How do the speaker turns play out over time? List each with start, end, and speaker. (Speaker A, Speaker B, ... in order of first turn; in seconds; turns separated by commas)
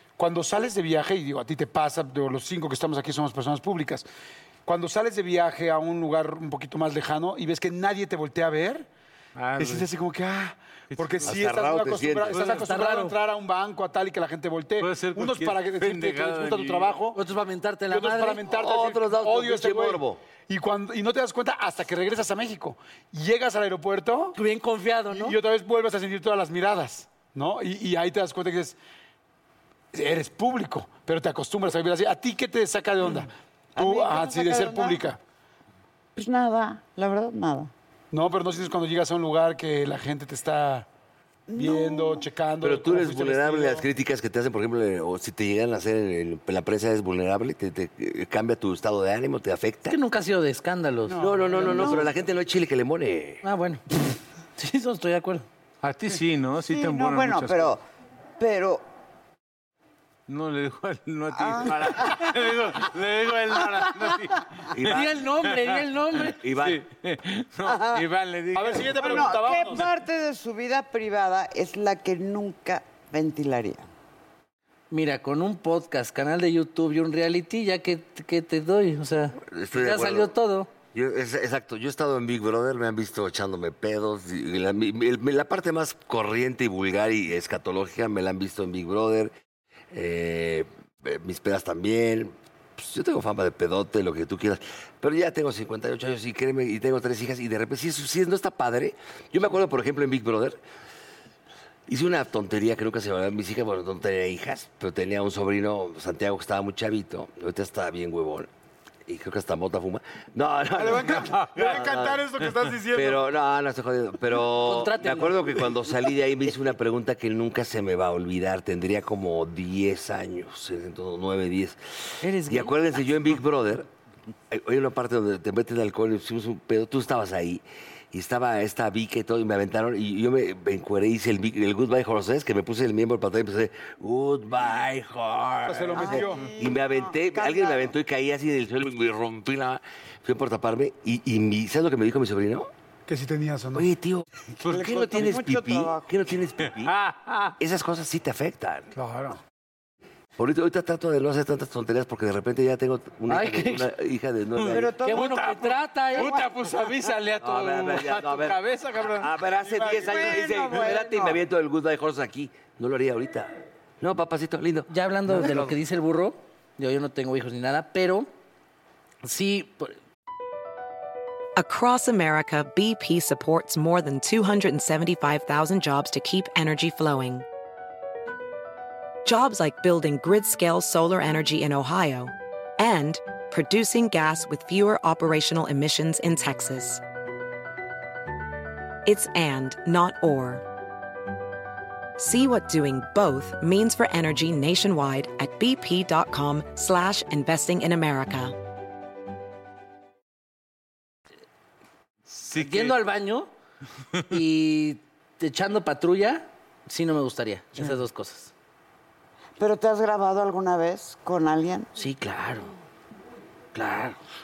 Speaker A: 0.2-4.1, Speaker A: 4.7-8.9, Speaker B: 9.4-9.9, Speaker A: 9.6-17.2, Speaker B: 10.9-11.4, Speaker C: 11.2-12.4, Speaker B: 12.3-12.6, Speaker D: 12.4-13.2, Speaker B: 14.8-17.0, Speaker D: 17.1-18.4, Speaker A: 17.9-24.4, Speaker C: 18.5-20.2, Speaker D: 24.4-25.4, Speaker A: 25.1-28.8, Speaker A: 29.9-35.2, Speaker E: 33.8-35.0, Speaker E: 36.2-37.7, Speaker A: 38.1-40.9, Speaker E: 41.5-42.3, Speaker A: 41.6-43.9, Speaker C: 42.6-50.0, Speaker D: 49.9-52.0, Speaker A: 51.2-52.0, Speaker E: 51.2-52.1, Speaker C: 51.2-53.4, Speaker D: 53.4-55.5, Speaker B: 55.8-57.7, Speaker E: 56.6-57.8, Speaker E: 58.4-58.8, Speaker B: 60.3-64.7, Speaker E: 61.3-62.4, Speaker C: 64.7-65.2, Speaker D: 64.8-66.4, Speaker B: 65.2-69.8, Speaker C: 66.4-66.8, Speaker E: 67.6-68.1, Speaker A: 68.5-69.9, Speaker E: 69.0-73.9, Speaker D: 74.9-80.7, Speaker C: 79.4-80.3, Speaker C: 80.9-89.3, Speaker C: 89.9-100.6, Speaker C: 101.9-108.5, Speaker C: 109.1-112.2, Speaker A: 110.8-113.3, Speaker B: 111.1-111.8, Speaker B: 112.4-112.7, Speaker C: 112.9-123.9, Speaker D: 114.6-115.4, Speaker D: 122.2-122.7, Speaker C: 124.5-142.7, Speaker A: 135.7-136.5, Speaker E: 135.9-138.0, Speaker A: 143.1-143.9, Speaker C: 143.7-144.2, Speaker E: 144.6-146.1, Speaker C: 144.8-146.9, Speaker B: 146.6-147.6, Speaker C: 147.6-148.9, Speaker A: 148.9-149.4, Speaker C: 150.4-154.8, Speaker D: 153.3-153.9, Speaker B: 154.6-159.3, Speaker D: 154.6-156.4, Speaker E: 154.7-155.6, Speaker E: 156.2-156.4, Speaker C: 157.4-165.8, Speaker A: 159.6-160.5, Speaker E: 159.9-161.4, Speaker D: 164.9-168.3, Speaker D: 169.2-170.0, Speaker F: 171.6-177.4, Speaker F: 179.2-187.0, Speaker F: 189.1-190.6, Speaker F: 192.2-198.6, Speaker B: 202.3-203.0, Speaker D: 202.5-203.5, Speaker D: 204.3-208.5, Speaker E: 209.6-211.9, Speaker C: 212.0-212.7, Speaker C: 213.7-214.2